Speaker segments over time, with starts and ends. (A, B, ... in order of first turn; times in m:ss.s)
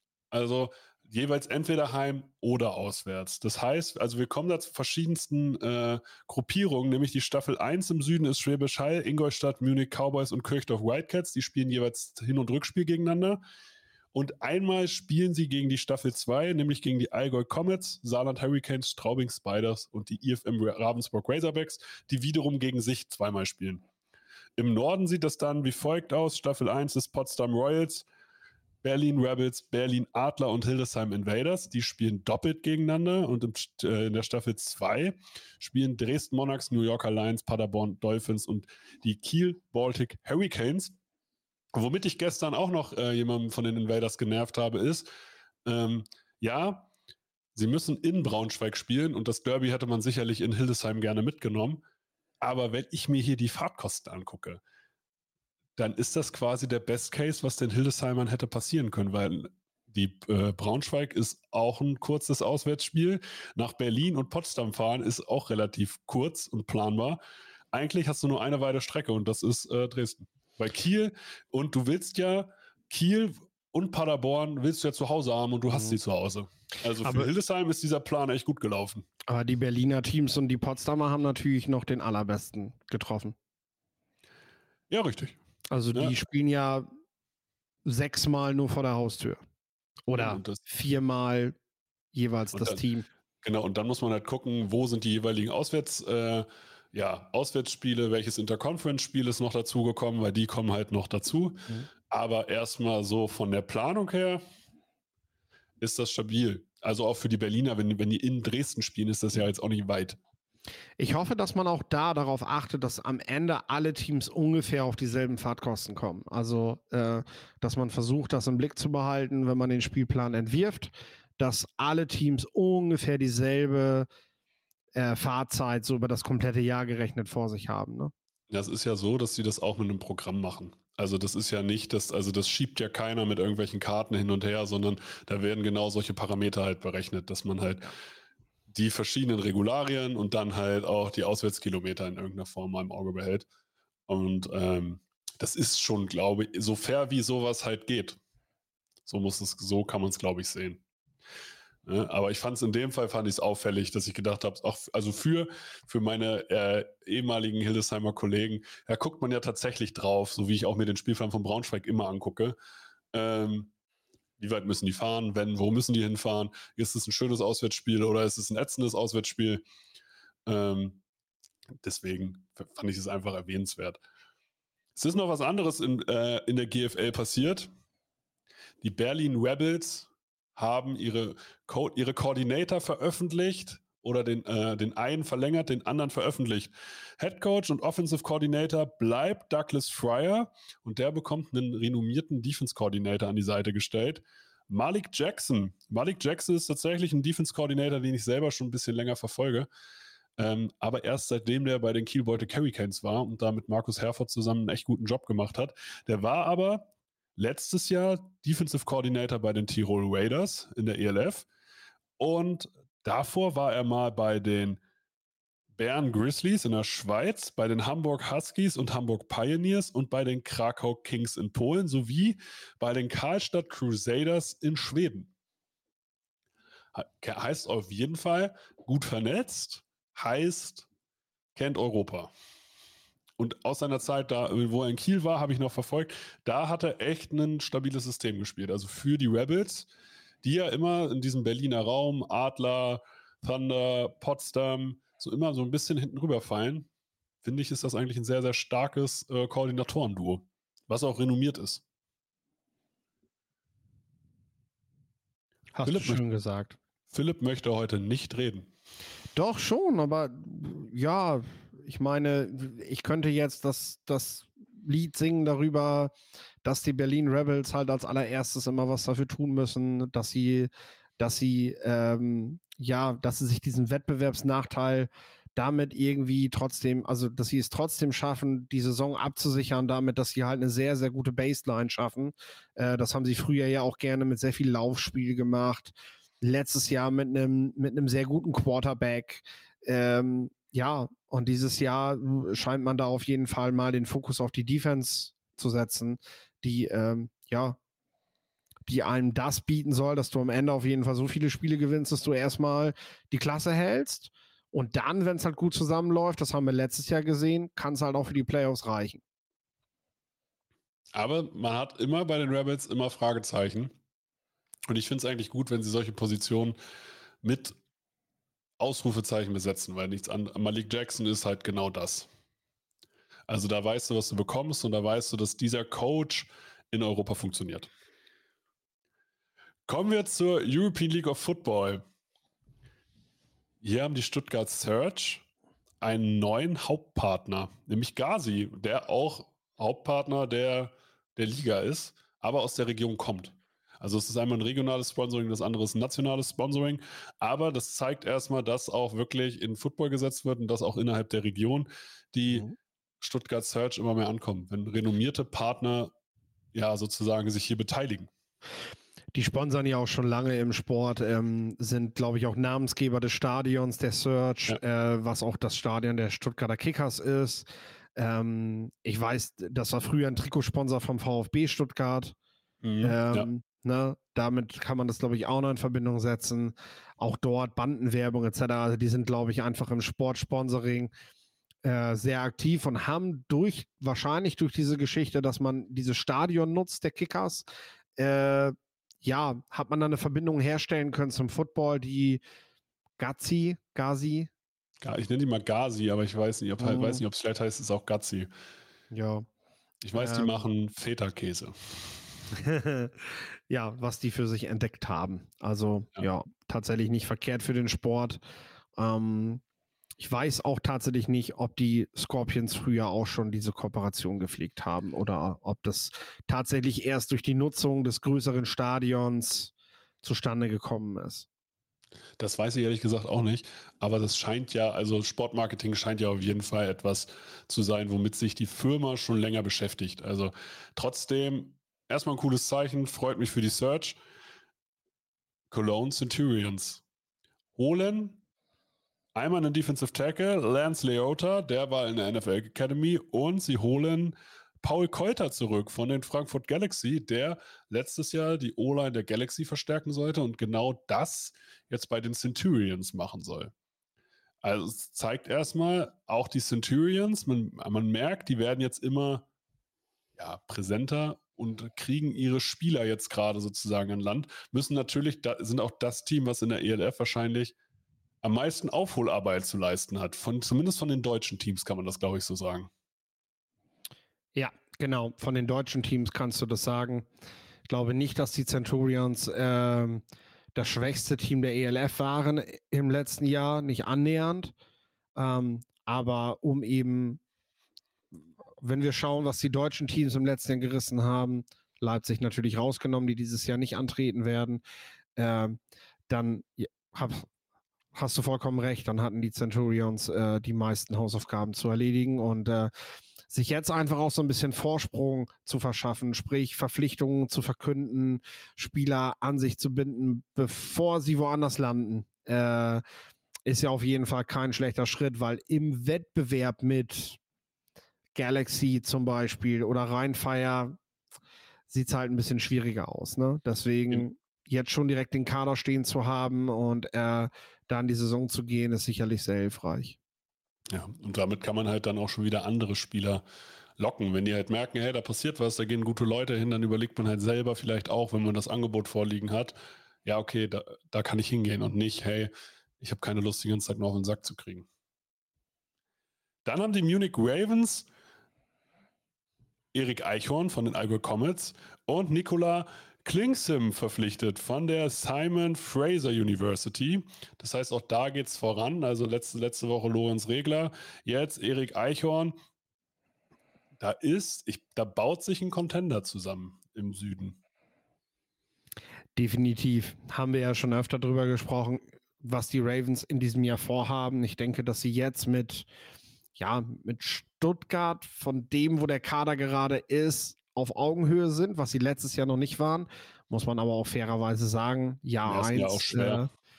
0:00.3-0:13.4 A
0:14.1-0:23.8 A
0:24.6-0:28.1 A
0:28.8-0:41.0 A
0:41.7-0:45.1 A
0:45.7-0:46.9 A
0:47.5-0:51.8 A
0:52.4-0:54.6 A
0:55.8-1:07.2 A
1:07.7-1:19.1 A
1:15.7-1:16.0 B
1:17.0-1:17.3 B
1:19.3-1:23.4 B
1:24.9-1:25.4 A
1:25.7-1:26.9 B
1:27.8-1:29.4 B
1:30.1-1:31.6 B
1:30.2-1:30.6 A
1:32.1-1:33.1 B
1:33.4-1:44.4 A
1:45.8-1:50.2 A
1:51.0-2:04.1 B
2:05.0-2:08.1 B
2:08.5-2:17.9 A
2:18.7-2:23.5 A
2:24.1-2:28.2 A
2:29.1-2:30.8 A
2:31.8-2:42.6 A
2:43.1-2:43.7 A
2:44.4-2:49.6 A
2:50.5-2:51.0 A
2:51.8-2:54.0 A
2:55.0-2:57.7 A
2:58.8-3:19.7 A
3:20.4-3:31.5 A
3:32.2-3:34.8 A
3:35.8-3:45.3 A
3:47.0-3:50.9 A
3:51.6-3:52.3 A
3:53.4-3:59.9 A
4:00.4-4:06.9 A
4:07.4-4:11.8 A
4:15.8-4:16.8 B
4:15.8-4:16.2 A
4:17.1-4:18.7 A
4:19.4-4:57.8 B
4:58.9-5:09.2 B
5:11.1-5:13.9 A
5:14.9-5:16.8 A
5:17.4-5:17.8 A
5:18.8-5:22.3 A
5:23.5-5:27.9 A
5:29.9-5:32.0 A
5:33.8-5:35.4 A
5:36.0-5:52.7 A
5:52.5-5:52.7 B
5:53.2-5:56.1 A
5:56.7-5:58.3 A
5:59.4-6:12.4 B
6:12.8-6:13.5 A
6:13.0-6:21.1 B
6:21.8-6:27.7 B
6:28.2-6:32.4 B
6:33.2-6:34.5 B
6:35.0-6:38.5 A
6:36.8-6:37.2 B
6:39.1-6:39.5 B
6:40.0-6:42.2 A
6:40.1-6:40.7 B
6:42.5-6:43.1 B
6:43.7-6:48.4 B
6:49.0-6:49.6 B
6:50.2-6:59.7 B
7:00.2-7:01.5 B
7:02.4-7:14.2 A
7:15.7-7:17.0 A
7:17.8-7:18.4 A
7:19.4-7:33.7 A
7:34.6-7:39.5 A
7:40.4-7:47.8 A
7:48.4-7:52.9 A
7:54.6-7:57.3 B
7:57.9-8:00.2 B
8:00.8-8:04.7 B
8:05.4-8:07.4 B
8:08.8-8:14.8 B
8:15.4-8:15.8 B
8:16.3-8:17.5 B
8:18.1-8:22.9 B
8:23.5-8:33.0 B
8:33.7-8:37.4 B
8:38.4-8:41.0 B
8:41.9-8:50.2 B
8:50.9-8:53.4 A
8:54.0-9:04.9 A
9:06.6-9:08.1 A
9:09.9-9:22.6 A
9:24.0-9:27.6 A
9:29.4-9:35.9 B
9:36.6-9:46.5 B
9:45.4-9:46.4 A